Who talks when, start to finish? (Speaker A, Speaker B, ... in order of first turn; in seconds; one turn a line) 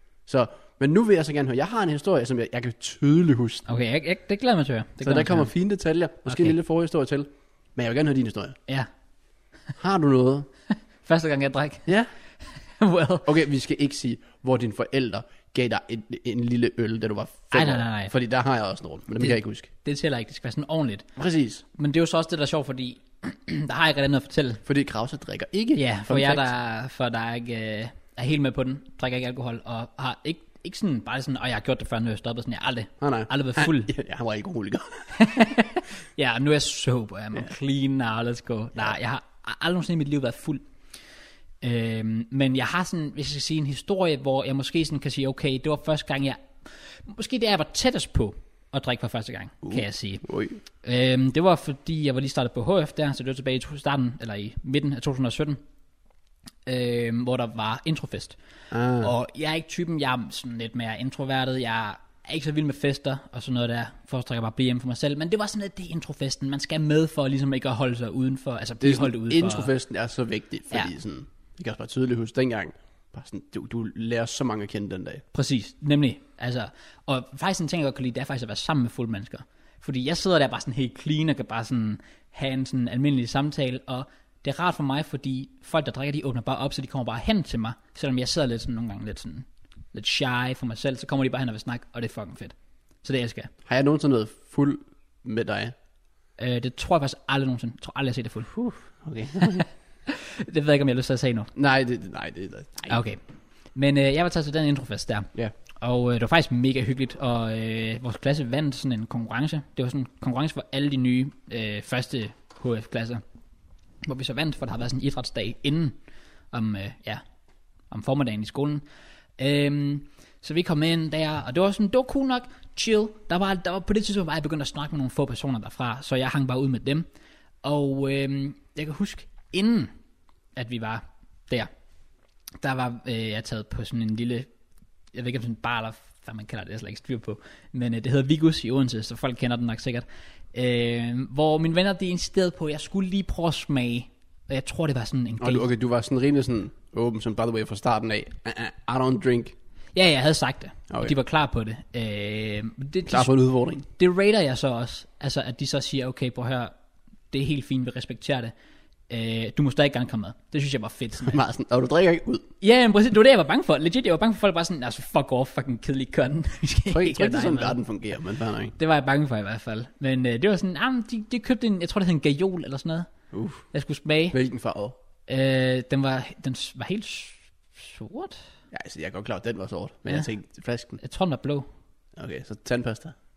Speaker A: 0.3-3.6
Speaker B: 3.7-5.5
Speaker A: 5.0-8.6
Speaker B: 6.3-6.5
Speaker A: 9.8-10.5
Speaker B: 11.0-11.9
Speaker B: 12.6-13.3
Speaker A: 13.2-19.7
Speaker B: 17.5-18.1
Speaker B: 19.2-21.1
Speaker A: 21.1-21.6
Speaker B: 21.7-24.6
Speaker A: 24.6-26.5
Speaker B: 25.8-33.9
Speaker A: 33.0-35.1
Speaker B: 35.1-40.6
Speaker B: 41.6-50.2
Speaker A: 49.6-50.6
Speaker B: 50.8-55.6
Speaker B: 56.6-58.4
Speaker A: 58.7-59.1
Speaker B: 59.0-69.7
Speaker A: 68.8-75.2
Speaker B: 75.3-93.5
Speaker A: 93.7-95.7
Speaker B: 96.4-98.5
Speaker A: 98.5-99.7
Speaker B: 99.4-101.5
Speaker A: 101.5-103.0
Speaker B: 102.9-103.2
Speaker B: 103.7-113.2
Speaker B: 114.0-116.0
Speaker B: 116.5-117.2
Speaker B: 117.9-118.8
Speaker B: 119.4-127.0
Speaker B: 127.6-129.9
Speaker B: 130.6-131.7
Speaker B: 132.6-134.5
Speaker B: 135.1-145.6
Speaker A: 145.4-149.5
Speaker B: 149.9-153.3
Speaker A: 153.1-153.8
Speaker B: 153.8-156.7
Speaker B: 157.3-158.5
Speaker B: 159.1-161.4
Speaker A: 161.2-162.5
Speaker B: 162.6-167.8
Speaker A: 166.9-168.7
Speaker B: 168.8-173.1
Speaker A: 173.3-173.6
Speaker B: 173.7-174.4
Speaker A: 174.3-175.0
Speaker B: 175.3-178.4
Speaker A: 178.7-181.0
Speaker B: 181.0-181.7
Speaker A: 182.2-183.1